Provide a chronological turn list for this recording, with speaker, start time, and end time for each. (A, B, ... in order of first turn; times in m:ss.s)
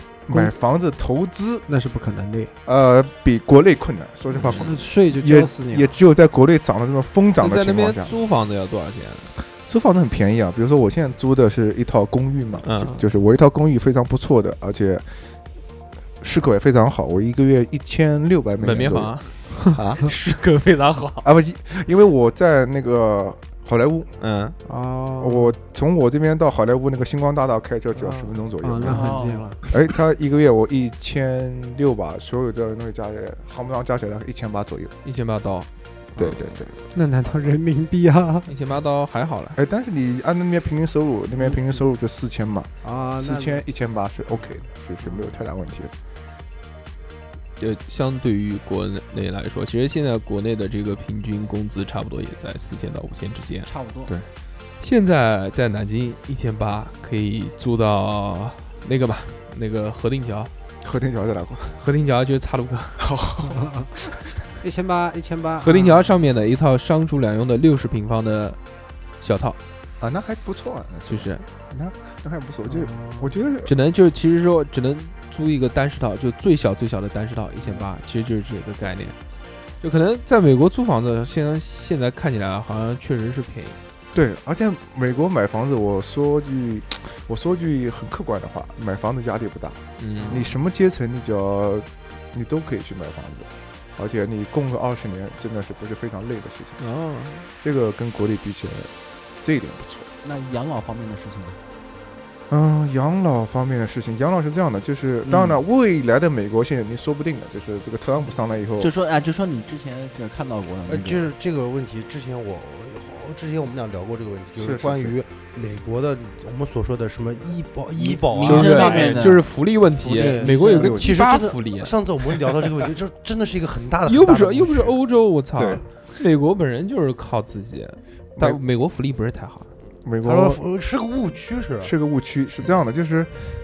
0:00.2-0:01.6 A
0:01.7-0:02.5 B
0:02.6-0:08.2 A
0:04.4-0:04.7 C
0:04.6-0:05.9 B
0:07.4-0:09.3 C
0:09.7-0:15.0 A
0:12.6-0:13.1 C
0:16.2-0:20.0 A
0:18.6-0:21.3 C
0:21.2-0:24.1 A
0:24.2-0:24.6 C
0:24.6-0:25.6 B
0:25.2-0:29.2 A
0:28.0-0:29.7 B
0:28.8-0:29.6 D
0:29.7-0:34.9 A
0:35.0-0:35.7 C
0:36.2-0:37.3 A
0:36.2-0:38.5 B
0:38.5-0:39.6 C
0:39.6-0:45.9 A
0:41.4-0:41.8 B
0:42.8-0:43.6 B
0:45.0-0:45.3 B
0:47.6-0:53.7 C
0:53.6-0:54.1 D
0:54.8-1:00.5 C
1:00.8-1:01.8 A
1:01.8-1:03.0 C
1:03.0-1:03.6 A
1:03.5-1:03.9 B
1:04.6-1:06.2 B
1:05.6-1:08.6 C
1:09.2-1:09.6 C
1:10.0-1:13.7 A
1:11.1-1:11.4 C
1:12.6-1:13.3 B
1:13.6-1:19.2 C
1:19.8-1:23.8 C
1:24.1-1:36.8 A
1:30.0-1:30.5 C
1:36.8-1:37.5 C
1:37.6-1:38.9 A
1:39.4-1:40.1 A
1:40.2-1:41.6 D
1:42.5-1:48.9 A
1:45.2-1:45.6 D
1:48.8-1:51.3 D
1:50.9-1:59.4 E
1:54.6-1:55.1 A
1:57.9-1:59.4 D
1:58.3-2:01.9 C
1:58.6-1:59.1 B
2:00.0-2:05.0 E
2:00.2-2:00.9 D
2:00.6-2:01.2 A
2:04.0-2:09.7 C
2:05.5-2:05.8 A
2:10.0-2:10.6 A
2:10.2-2:11.9 E
2:11.8-2:13.3 A